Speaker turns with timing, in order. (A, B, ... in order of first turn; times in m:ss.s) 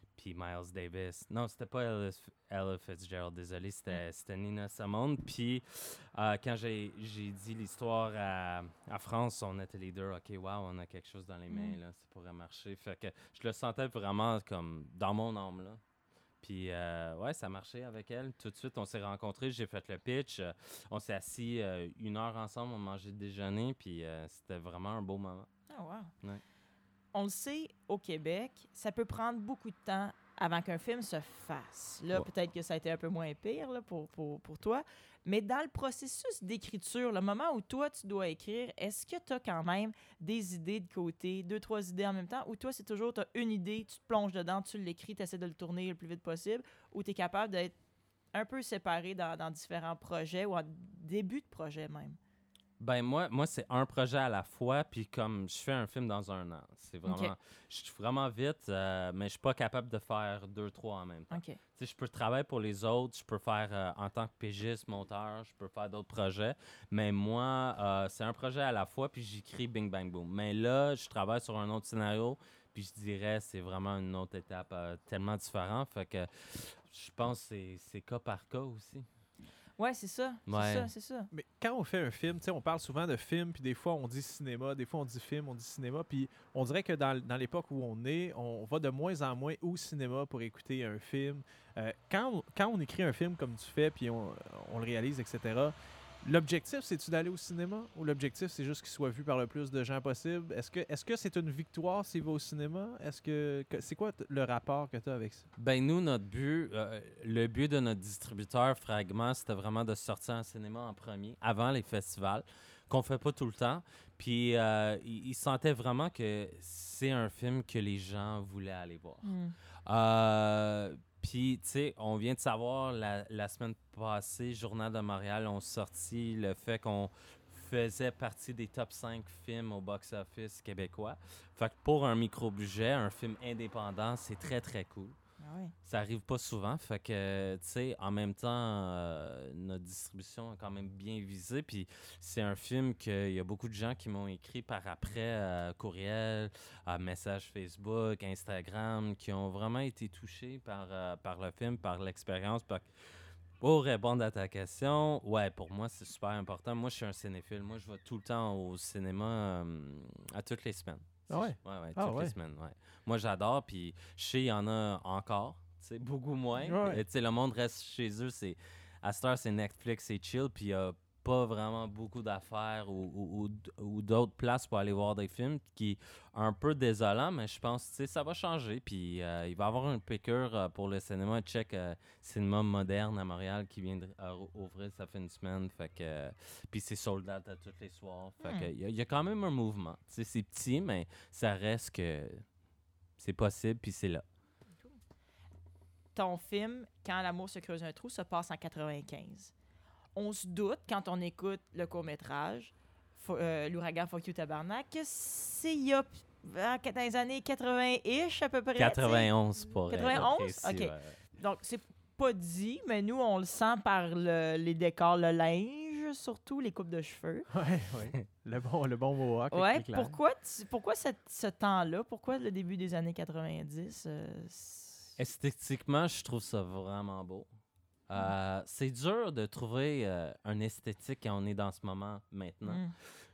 0:00.2-0:15.8 A
0:11.5-0:11.8 B
0:16.4-0:25.5 A
0:25.7-0:26.1 B
0:27.1-0:47.8 B
0:48.3-0:52.2 B
0:52.8-1:19.1 A
0:57.1-0:57.3 B
1:01.3-1:01.6 B
1:19.8-1:21.3 B
1:20.5-1:20.9 A
1:21.3-1:45.5 C
1:45.6-1:59.3 A
1:59.2-1:59.6 B
1:59.9-2:15.2 A
2:15.4-2:15.7 B
2:15.8-2:32.9 A
2:33.6-3:12.4 A
2:41.3-2:42.4 C
2:46.6-2:47.0 C
3:08.4-3:08.7 B
3:13.2-3:14.2 A
3:16.2-3:19.5 B
3:20.2-3:29.3 B
3:28.8-3:31.2 A
3:29.9-3:37.5 B
3:37.5-3:40.2 C
3:39.5-3:45.1 B
3:45.2-3:47.5 A
3:48.1-3:52.9 A
3:52.7-3:52.9 B